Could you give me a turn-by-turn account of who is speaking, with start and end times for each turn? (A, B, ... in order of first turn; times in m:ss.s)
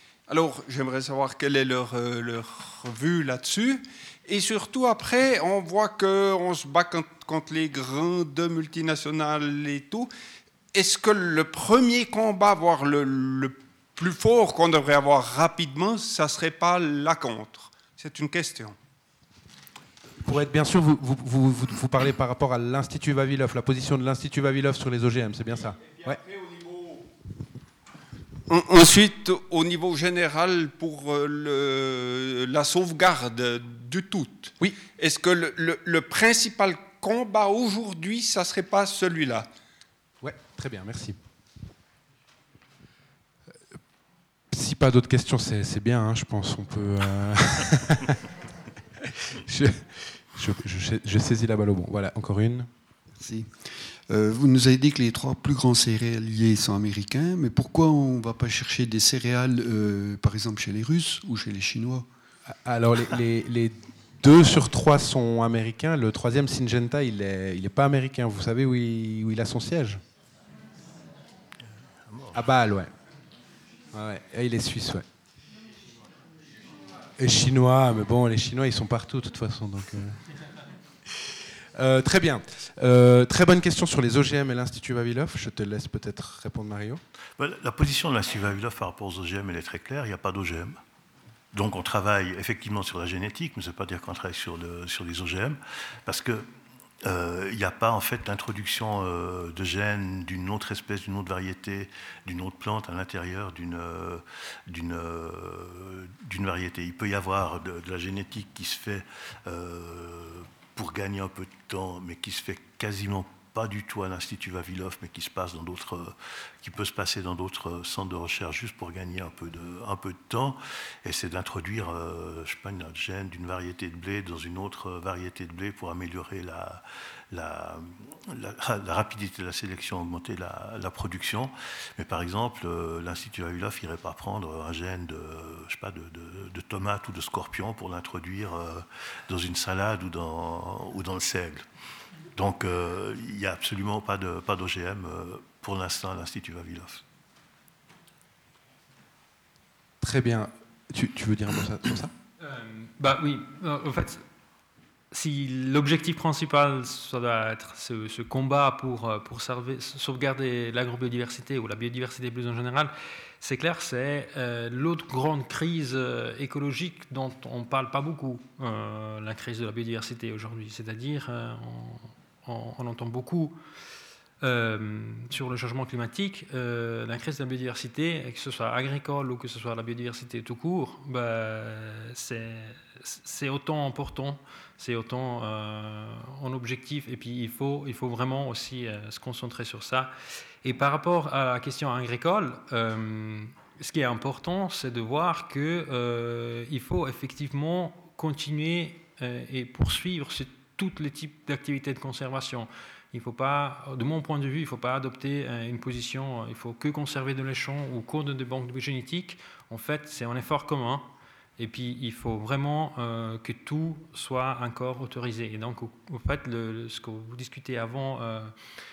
0:00.3-0:10.1 A
0:10.7-0:18.8 A
0:20.2-0:26.2 B
0:28.5-0:39.5 A
0:40.2-0:41.2 B
0:44.5-0:48.2 B
0:49.0-0:52.7 B
0:53.2-1:02.1 C
1:02.5-1:10.0 B
1:12.0-1:12.4 D
1:12.3-1:12.9 B
1:13.9-1:15.1 B
1:17.2-1:20.2 B
1:21.2-1:27.0 B
1:27.4-1:30.8 D
1:31.5-1:36.5 D
1:37.0-2:21.6 D
2:22.4-2:27.0 D
2:30.0-2:32.1 B
2:32.4-2:34.2 E
2:35.1-2:53.6 E
2:54.4-3:38.5 E